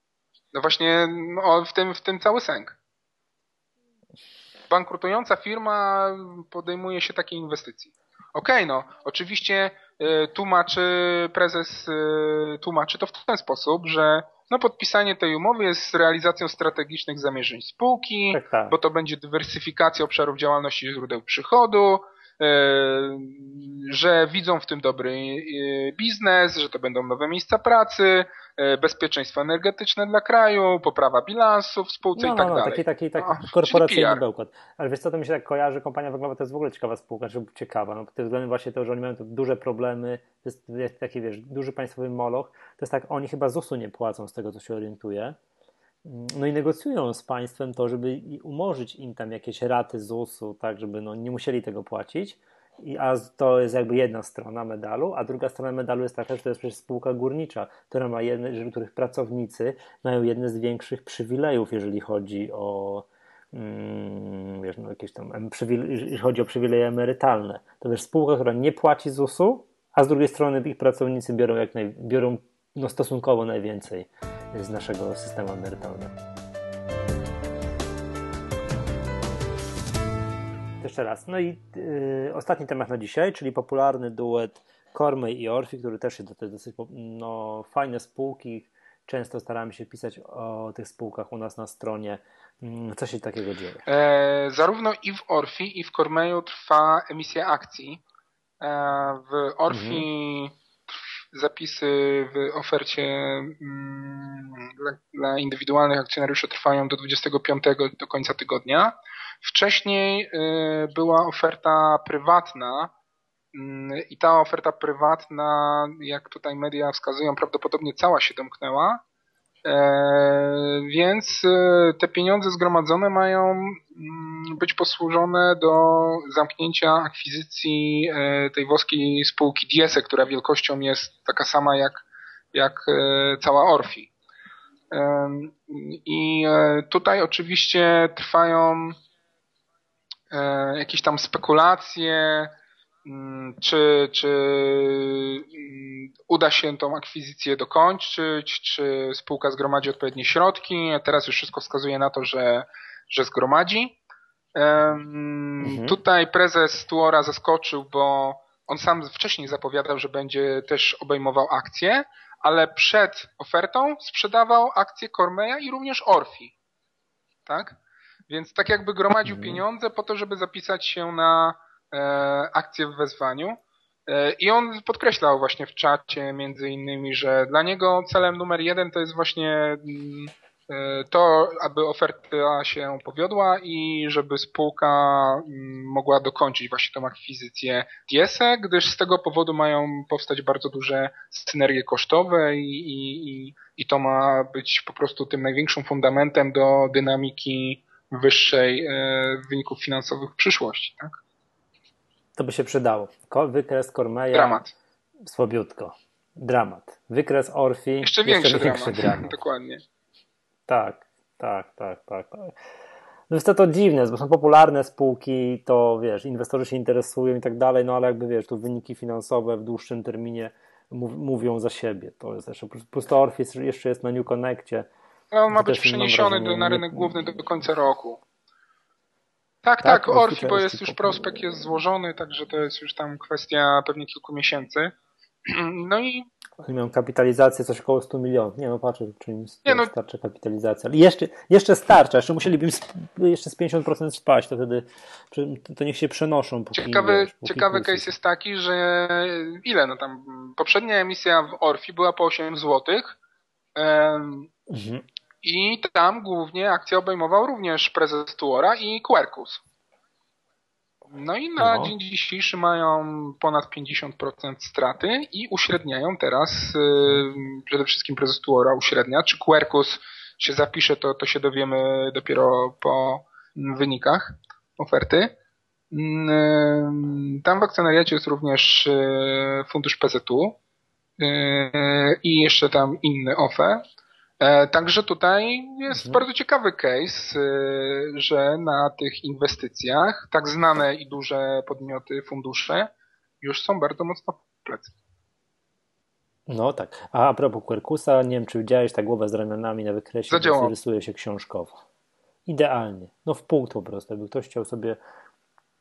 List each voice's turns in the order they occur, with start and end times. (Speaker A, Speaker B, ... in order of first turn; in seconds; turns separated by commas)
Speaker A: 0.5-2.8, Speaker A: 4.7-34.2, Speaker B: 18.3-18.7, Speaker B: 32.1-45.4, Speaker B: 46.0-76.1, Speaker B: 80.8-93.8, Speaker A: 93.8-98.0, Speaker A: 98.6-112.9, Speaker B: 99.7-100.1, Speaker A: 113.5-119.0, Speaker A: 119.6-134.1, Speaker A: 134.9-139.0, Speaker A: 140.3-142.5, Speaker A: 143.0-154.0, Speaker A: 154.5-166.5, Speaker B: 155.6-156.0, Speaker A: 167.4-167.8, Speaker A: 168.3-201.2, Speaker B: 169.2-169.6, Speaker B: 202.3-204.6, Speaker A: 204.3-204.7, Speaker B: 205.2-209.3, Speaker A: 208.0-209.8, Speaker B: 210.7-212.5, Speaker B: 213.3-224.9, Speaker A: 225.3-228.2, Speaker B: 225.5-227.2, Speaker A: 229.6-236.3, Speaker B: 229.8-231.4, Speaker B: 236.6-248.1, Speaker A: 239.6-239.9, Speaker A: 246.7-253.2, Speaker A: 253.8-254.5, Speaker B: 254.7-255.0, Speaker A: 255.4-259.6, Speaker A: 261.1-275.4, Speaker B: 261.6-261.9, Speaker A: 275.9-280.6, Speaker A: 281.2-283.8, Speaker A: 284.4-292.9, Speaker B: 285.9-286.2, Speaker A: 293.4-294.9, Speaker B: 296.5-301.8, Speaker A: 300.3-300.7, Speaker B: 302.4-305.0